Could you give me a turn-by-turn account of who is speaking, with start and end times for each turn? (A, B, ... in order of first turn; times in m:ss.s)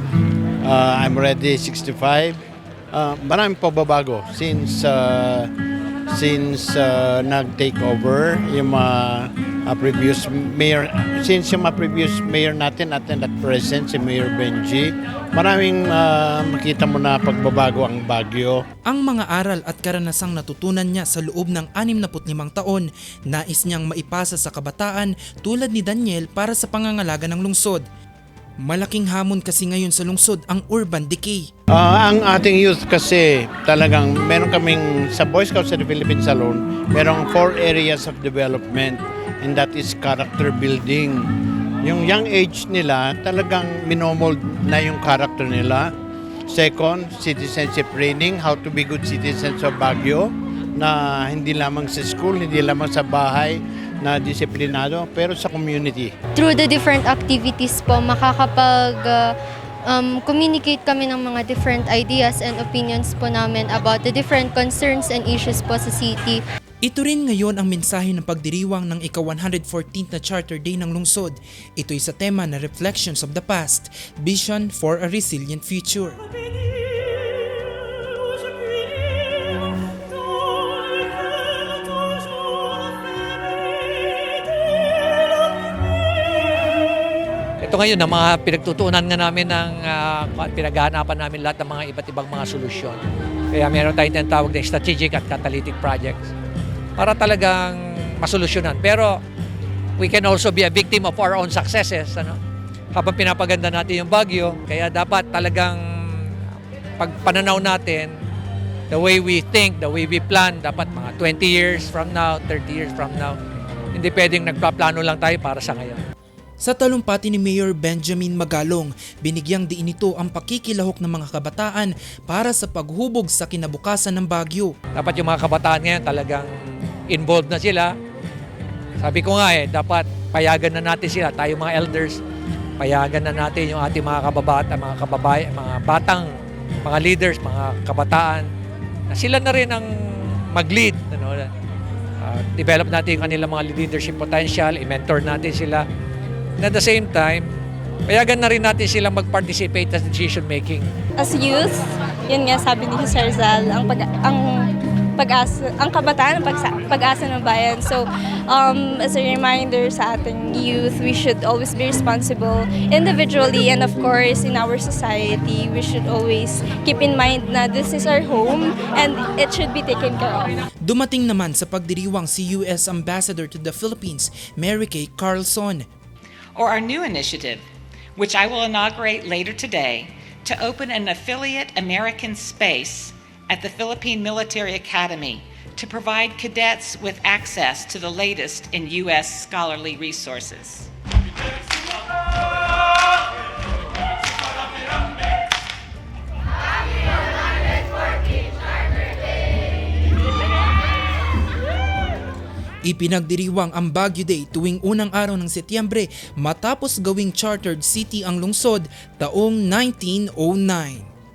0:00.6-0:02.4 A
0:02.9-0:05.5 A
0:06.1-0:18.6 A
0:18.9-0:27.8 B
0:28.6-0:31.5 B
0:31.7-0:41.3 A
0:41.8-0:45.9 A
0:46.5-0:56.1 A
0:56.4-0:59.3 C
0:59.9-1:06.4 C
1:06.8-1:16.3 B
1:27.6-1:33.0 D
1:33.5-1:36.3 D
1:37.0-1:39.1 D
1:40.0-1:42.4 D
1:42.9-1:45.8 D
1:47.0-1:48.1 D
1:48.9-1:53.4 D
1:53.9-1:56.0 D
1:56.6-2:04.7 B
2:04.9-2:06.5 D
2:07.1-2:07.9 D
2:09.0-2:12.2 D
2:12.8-2:16.3 D
2:16.8-2:18.5 D
2:19.1-2:19.9 D
2:20.5-2:21.5 D
2:22.2-2:25.8 D
2:26.6-2:27.5 D
2:28.1-2:30.9 D
2:31.2-2:50.6 E
2:50.8-2:55.9 B
2:56.5-2:57.6 F
2:58.2-3:10.9 F
3:22.8-3:31.1 B